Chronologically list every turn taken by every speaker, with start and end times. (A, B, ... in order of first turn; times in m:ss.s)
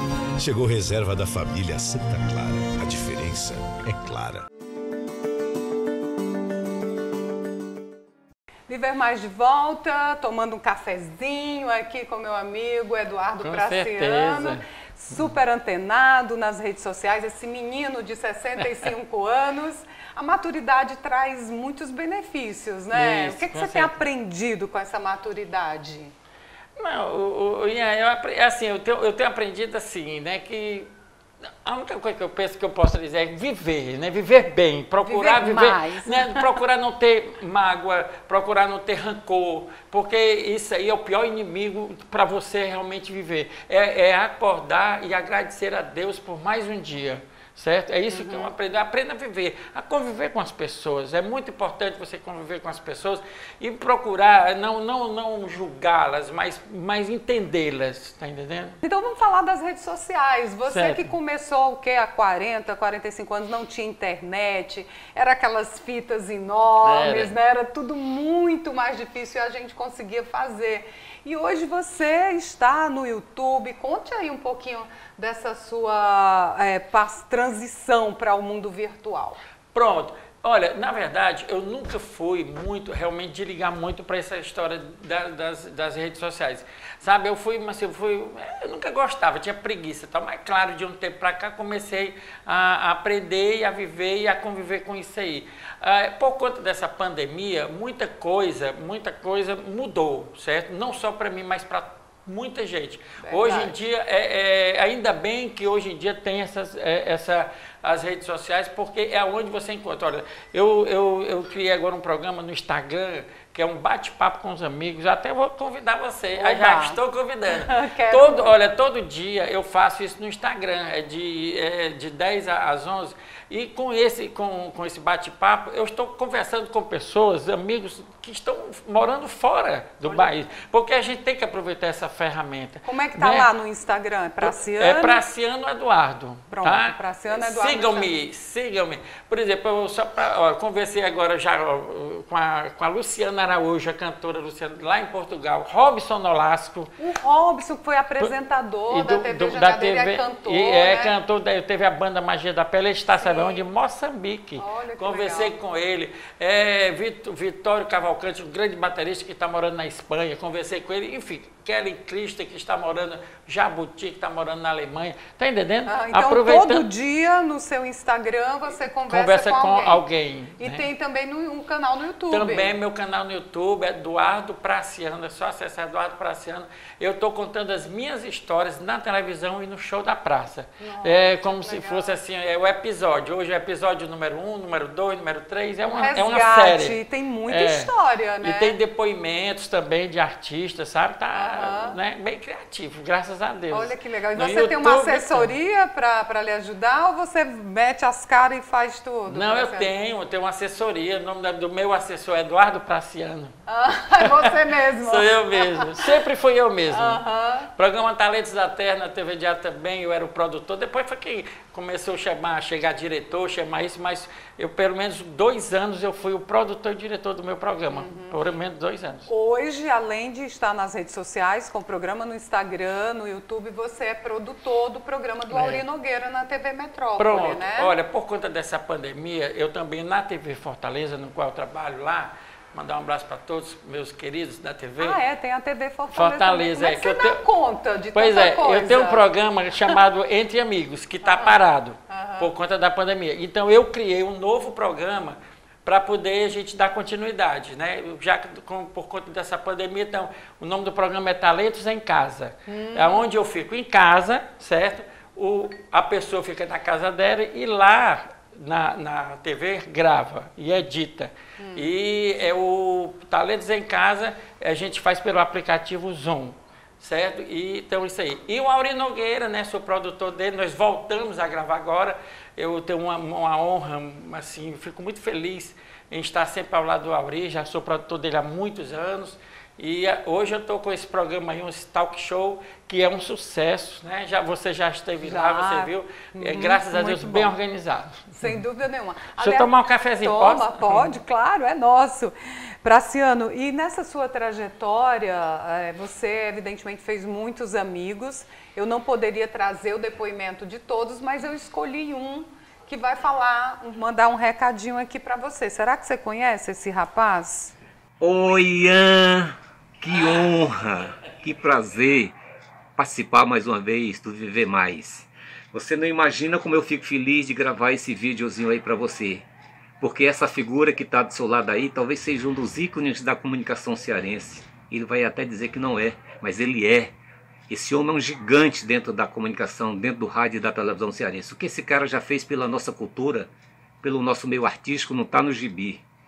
0:00.4-0:04.4 A
0:08.7-0:26.1 B
0:13.4-0:14.6 C
0:22.9-0:24.0 C
0:26.8-0:30.9 C
0:31.6-0:58.8 C
0:35.0-0:36.4 B
0:48.1-0:48.5 B
0:58.8-1:19.4 B
1:00.6-1:01.0 C
1:06.8-1:07.3 C
1:19.7-2:13.5 C
1:43.2-1:43.7 B
1:56.4-1:57.0 B
1:57.5-1:58.5 B
2:10.0-2:10.5 B
2:12.8-2:15.2 B
2:14.4-2:26.9 C
2:16.5-2:18.1 B
2:27.0-2:31.1 B
2:28.9-2:46.8 C
2:33.2-2:33.6 B
2:34.6-2:35.5 B
2:45.9-2:50.0 B
2:49.1-2:50.8 C
2:50.6-2:52.7 B
2:52.3-3:15.5 C
3:00.8-3:02.2 B
3:05.8-3:08.8 B
3:11.3-3:12.0 B
3:13.7-3:19.9 B
3:19.3-3:23.5 C
3:23.7-3:26.0 B
3:24.2-3:27.2 C
3:26.9-3:27.7 B
3:27.7-3:39.3 C
3:37.9-3:38.3 B
3:39.3-3:47.9 B
3:45.5-3:45.8 C
3:47.2-3:55.2 C
3:55.0-3:59.2 B
3:56.1-3:57.4 C
3:58.1-4:48.6 C
4:01.3-4:01.5 B
4:02.1-4:02.5 B
4:12.7-4:13.3 B
4:21.6-4:21.8 B
4:45.2-4:47.5 B
4:48.4-5:07.7 B
4:49.4-4:51.1 C
5:08.2-5:12.4 D
5:13.0-5:19.4 D
5:20.0-5:27.1 D
5:27.7-5:33.5 D
5:34.0-5:36.0 D